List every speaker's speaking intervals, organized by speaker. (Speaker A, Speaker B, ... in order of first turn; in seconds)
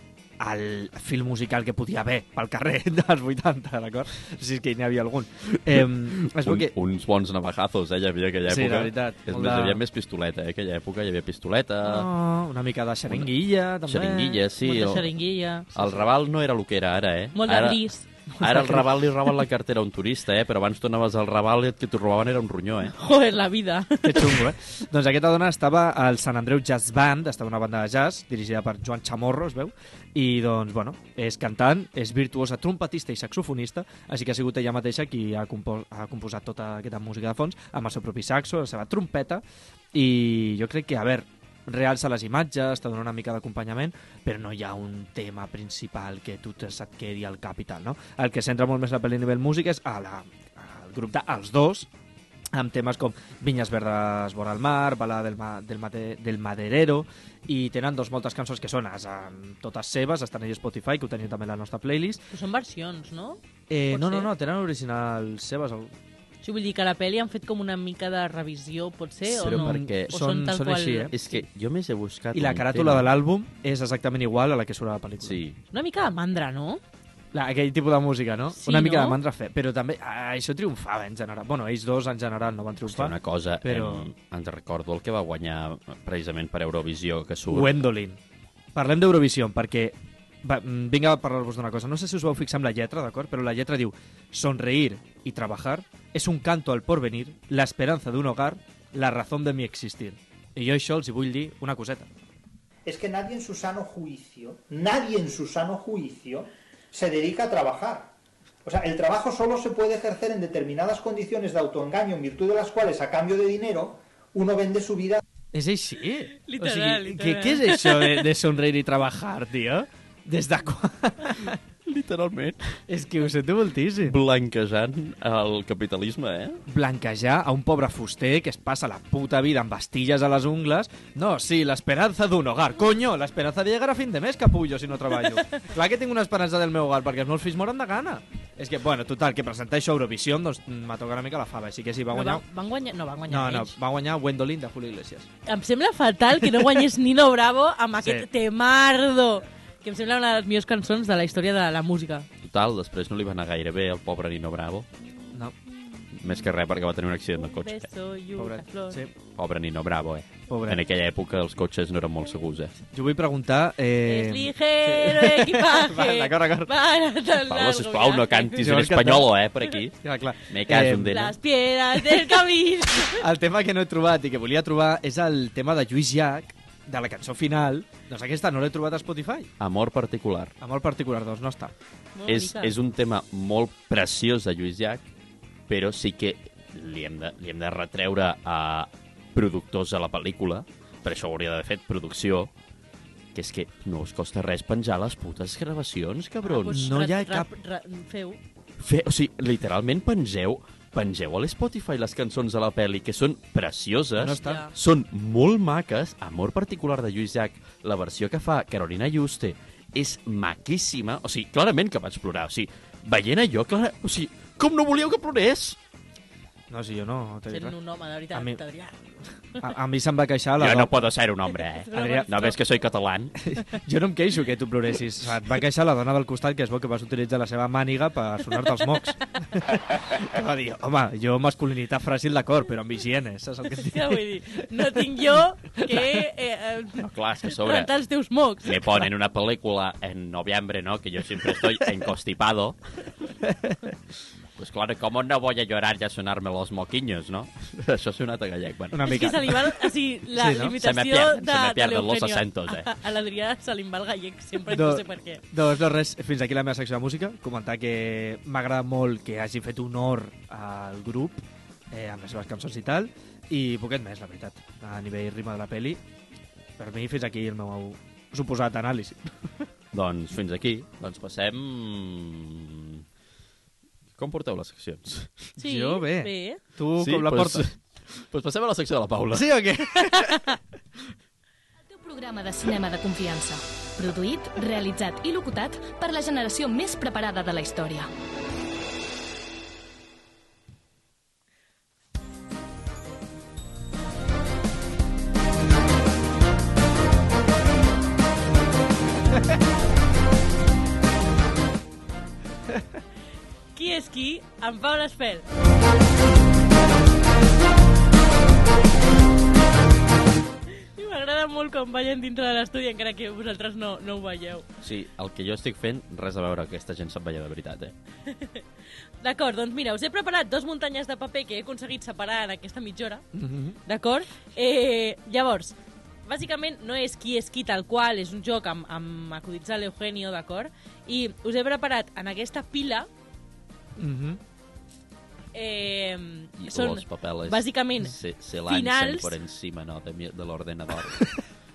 Speaker A: 0.4-6.7, 8.4-9.8, 11.8-14.4, 15.8-16.1, 18.3-18.9, 24.0-51.9, 52.5-62.2, 63.7-65.9, 69.5-71.1, 72.3-75.4, 77.3-84.1, 87.5-88.2, 88.7-102.1, 115.5-121.6, 122.9-124.2, 126.7-142.4, 143.3-145.3, 148.0-148.3, 158.3-159.1, 160.5-160.8, 162.9-166.7, 168.6-169.3, 170.0-171.2, 173.0-179.5, 180.6-181.7, 196.7-197.5, 204.2-204.6, 216.7-217.7, 218.3-218.6, 219.6-221.1, 221.9-222.3, 223.4-234.9, 235.8-236.2, 243.4-243.8, 248.9-249.7, 250.3-250.7, 254.7-266.0, 266.8-269.6, 275.6-277.7, 279.3-280.5, 323.3-323.8, 334.0-334.4
Speaker B: 5.7-12.1, 13.8-15.1, 15.7-17.8, 18.4-22.9, 69.3-70.1, 71.1-73.1, 75.2-75.6, 82.8-87.8, 121.8-122.8, 124.0-126.6, 152.4-154.9, 156.2-157.9, 159.3-162.7, 167.5-171.3, 179.6-180.5, 182.3-185.0, 185.7-192.5, 193.3-196.9, 198.8-215.8, 220.6-223.4, 237.0-237.9, 238.6-242.8, 244.6-249.5, 250.8-252.9, 269.9-273.0, 274.2-275.5, 277.0-279.5, 314.8-317.9, 336.6-341.3
Speaker C: 14.6-15.7, 17.3-18.1, 22.9-24.5, 62.3-64.3, 66.4-71.4, 75.7-76.8, 78.5-79.2, 116.4-118.3, 142.1-143.7, 145.4-152.3, 157.4-159.0, 164.0-168.6, 171.1-173.2, 182.1-182.7, 196.4-198.4, 204.4-204.7, 217.5-218.9, 221.7-222.6, 233.8-238.8, 249.1-255.4, 275.6-276.6, 280.1-280.5, 303.7-305.4, 310.8-314.6, 318.3-318.6, 319.2-323.2, 323.9-333.1, 335.5-339.3
Speaker D: 102.8-115.2
Speaker E: 281.9-288.1